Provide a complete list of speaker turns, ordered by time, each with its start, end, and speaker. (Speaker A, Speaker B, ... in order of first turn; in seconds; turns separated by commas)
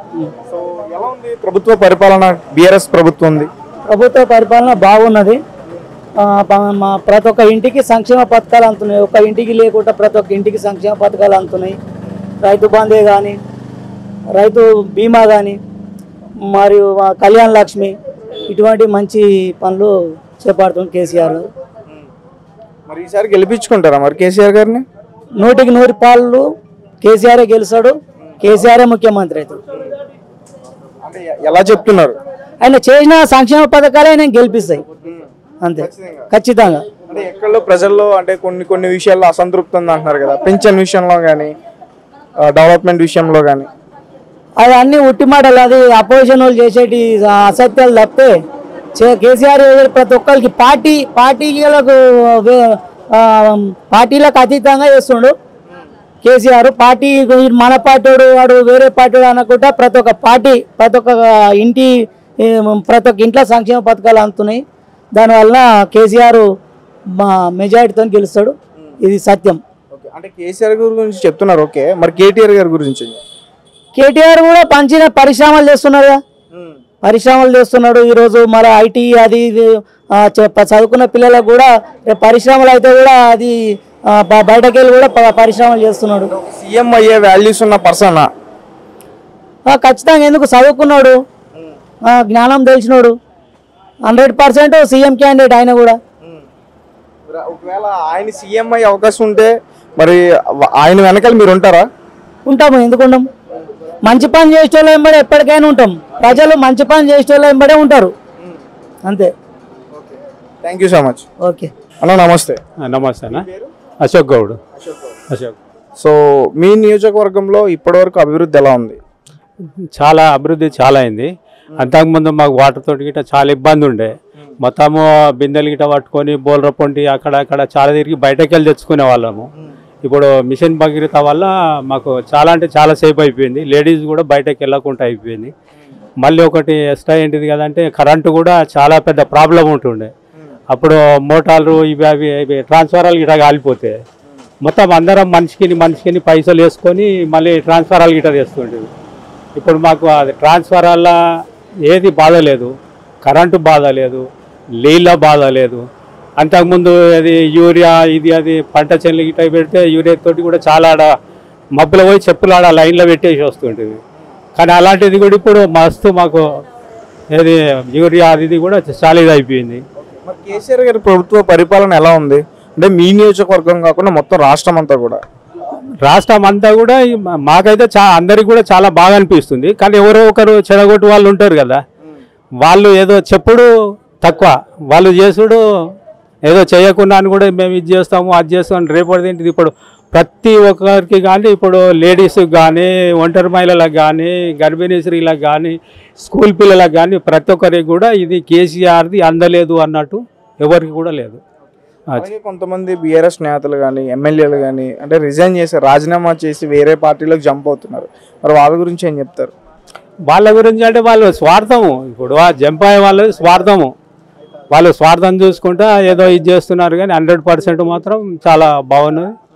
Speaker A: 0.4-3.5, Speaker B: 3.9-5.4, Speaker B: 6.2-11.8, Speaker B: 12.4-13.3, Speaker B: 14.3-15.6, Speaker B: 16.5-17.9, Speaker B: 18.5-21.4, Speaker A: 22.9-24.8, Speaker B: 25.4-26.4, Speaker B: 27.0-29.6, Speaker A: 31.0-32.2, Speaker B: 32.6-34.8, Speaker B: 35.6-36.9, Speaker A: 35.8-36.3, Speaker A: 37.1-41.5, Speaker A: 42.4-43.7, Speaker B: 44.6-48.3, Speaker B: 49.0-55.3, Speaker B: 56.2-64.6, Speaker B: 65.1-66.4, Speaker B: 67.2-69.6, Speaker A: 69.9-73.2, Speaker B: 73.9-76.2, Speaker B: 77.0-83.5, Speaker B: 84.1-86.3, Speaker A: 86.3-88.3, Speaker B: 89.7-91.2, Speaker B: 92.0-93.1, Speaker B: 94.1-96.0, Speaker A: 97.3-101.9, Speaker B: 102.5-103.2, Speaker B: 104.0-108.1, Speaker A: 109.9-111.2, Speaker B: 111.4-111.7, Speaker A: 112.0-112.6, Speaker C: 112.8-113.5, Speaker A: 113.3-113.7, Speaker C: 114.0-114.6, Speaker A: 114.8-115.2, Speaker C: 115.3-115.6, Speaker A: 116.0-119.0, Speaker C: 120.0-129.5, Speaker C: 130.0-135.5, Speaker C: 136.2-140.1, Speaker C: 140.7-144.0, Speaker C: 144.6-148.9, Speaker C: 149.6-151.2, Speaker C: 151.9-152.7, Speaker C: 153.2-154.2, Speaker C: 154.8-155.8, Speaker C: 156.4-161.1, Speaker C: 161.8-164.0, Speaker C: 164.6-166.4, Speaker C: 167.3-169.8, Speaker A: 170.0-175.2, Speaker C: 176.0-181.8, Speaker C: 182.6-183.7, Speaker C: 184.2-185.6, Speaker C: 186.5-201.4, Speaker A: 202.1-209.5, Speaker C: 210.3-213.9, Speaker C: 214.7-219.3